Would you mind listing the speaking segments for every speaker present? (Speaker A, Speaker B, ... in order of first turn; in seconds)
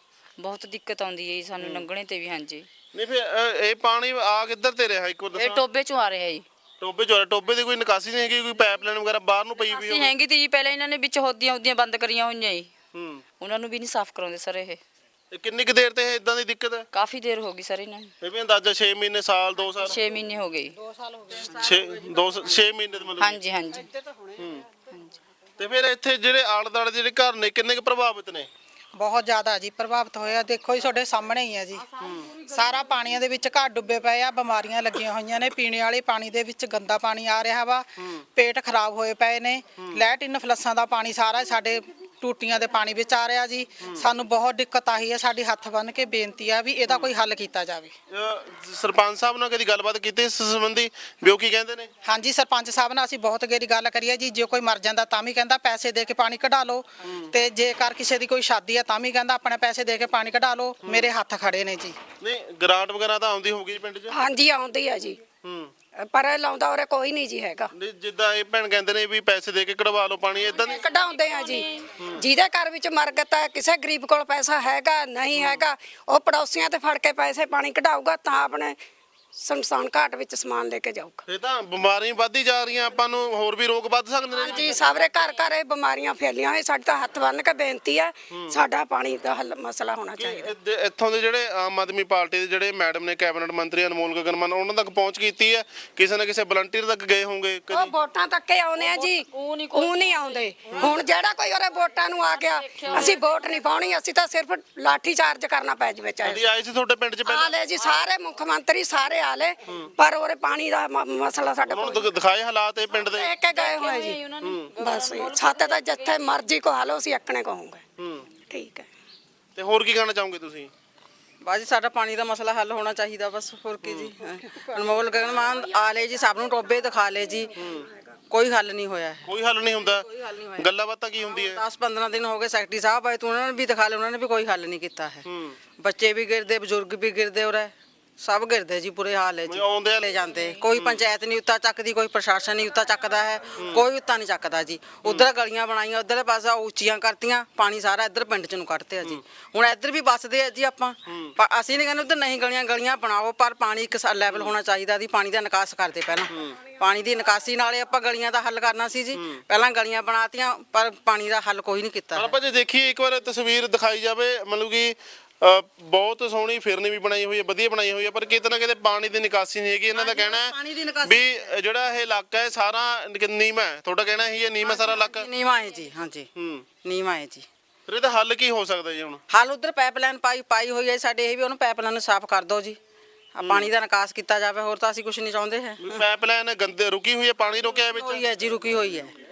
Speaker A: 0.4-2.7, 5.3-6.5, 9.7-12.7, 13.4-14.8, 16.9-18.1, 19.8-20.8, 23.2-23.9, 70.5-72.0, 84.4-85.4, 98.8-101.1, 102.2-103.7, 113.5-116.3
Speaker B: 1.6-1.9, 2.9-5.6, 6.8-10.1, 12.9-13.2, 15.3-16.9, 18.2-20.0, 21.3-23.4, 24.4-24.7, 25.6-28.5, 32.0-32.3, 48.1-51.9, 57.0-57.3, 60.8-61.1, 62.2-64.1, 65.4-65.7, 67.7-70.8, 75.3-75.7, 81.3-84.8, 90.2-97.9, 100.7-101.1, 106.2-107.6, 111.7-113.3, 114.4-114.7, 118.0-118.3, 119.6-120.7, 123.8-124.2, 127.6-127.9, 129.3-130.0, 130.6-131.6, 135.2-135.6, 139.5-140.0, 140.8-141.0, 143.5-143.9, 145.0-145.3, 151.1-151.3, 156.3-156.6, 159.2-159.4, 162.2-175.3, 176.4-176.7, 177.9-179.2, 183.4-183.7, 185.8-188.2
Speaker C: 29.0-31.9, 32.5-47.9, 52.0-62.0
Speaker D: 64.1-65.2, 66.0-67.7, 70.7-78.8, 79.4-81.2, 84.3-90.5, 97.7-106.5, 107.2-112.1, 113.0-114.2, 114.8-117.8, 118.3-118.9
Speaker E: 121.4-127.5, 128.3-129.3, 129.8-130.7, 131.2-135.2, 135.8-162.3, 169.9-171.5, 174.7-176.3, 176.8-177.5, 179.3-182.8, 183.3-186.0, 187.8-189.1